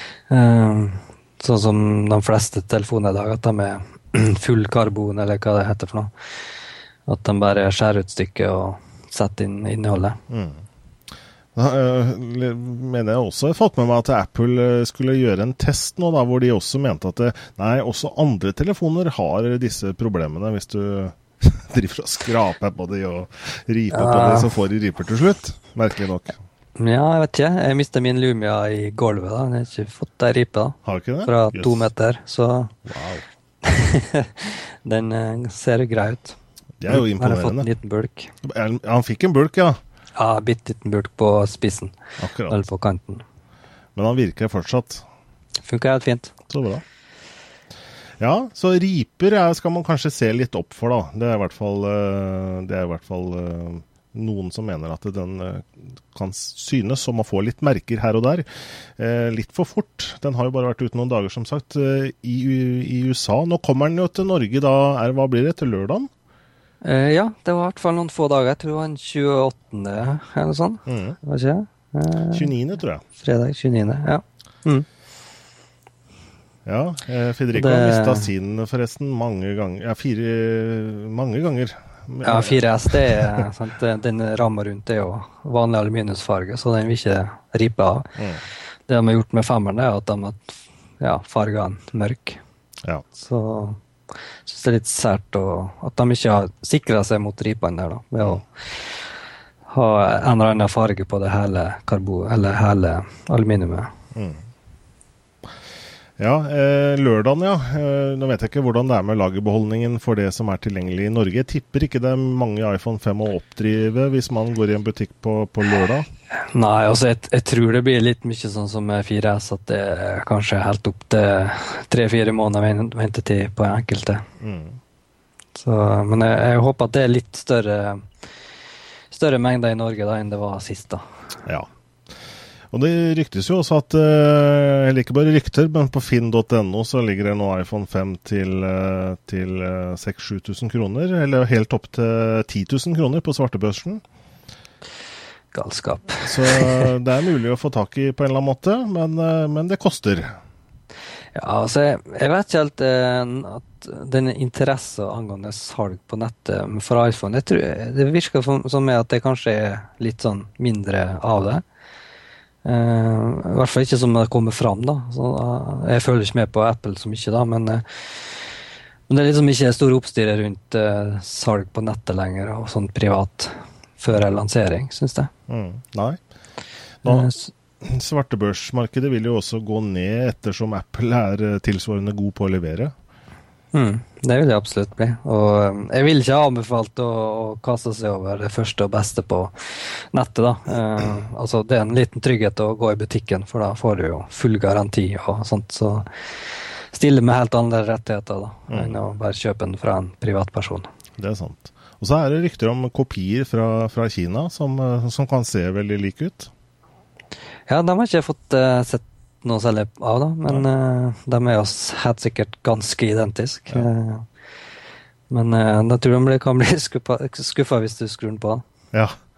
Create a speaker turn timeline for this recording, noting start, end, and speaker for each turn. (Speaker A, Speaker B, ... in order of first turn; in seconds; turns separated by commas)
Speaker A: 0.3-6.1, Speaker A: 7.1-10.2, Speaker B: 10.3-10.6, Speaker B: 11.5-26.4, Speaker A: 23.9-24.5, Speaker A: 26.8-32.8, Speaker B: 30.8-31.9, Speaker B: 32.9-33.2, Speaker A: 33.6-36.4, Speaker B: 36.8-37.7, Speaker A: 36.9-38.3, Speaker B: 38.4-39.8, Speaker A: 40.1-41.9, Speaker B: 42.2-42.5, Speaker A: 42.5-43.2, Speaker B: 44.0-45.0, Speaker A: 45.6-46.3, Speaker B: 46.5-46.8, Speaker B: 48.2-66.1, Speaker A: 66.8-72.5, Speaker B: 70.9-71.2, Speaker B: 72.3-73.0, Speaker A: 73.2-74.8, Speaker B: 76.7-83.5, Speaker A: 77.5-78.3, Speaker A: 82.2-88.2, Speaker B: 88.2-88.4, Speaker A: 88.9-92.4, Speaker A: 93.2-93.8, Speaker A: 94.4-99.0, Speaker A: 99.7-103.9, Speaker B: 104.1-104.4, Speaker B: 106.2-116.1, Speaker A: 116.5-124.2, Speaker B: 124.4-124.8, Speaker A: 125.5-128.1, Speaker A: 129.1-131.0, Speaker B: 132.7-144.0, Speaker A: 145.5-146.9, Speaker B: 146.2-150.4, Speaker A: 151.3-161.6, Speaker A: 162.6-168.5, Speaker A: 169.1-175.3, Speaker B: 175.5-176.2, Speaker B: 177.0-182.9, Speaker A: 177.0-177.5, Speaker A: 183.7-200.9, Speaker B: 198.7-199.0, Speaker B: 201.2-206.5, Speaker A: 207.7-214.2, Speaker A: 215.3-218.6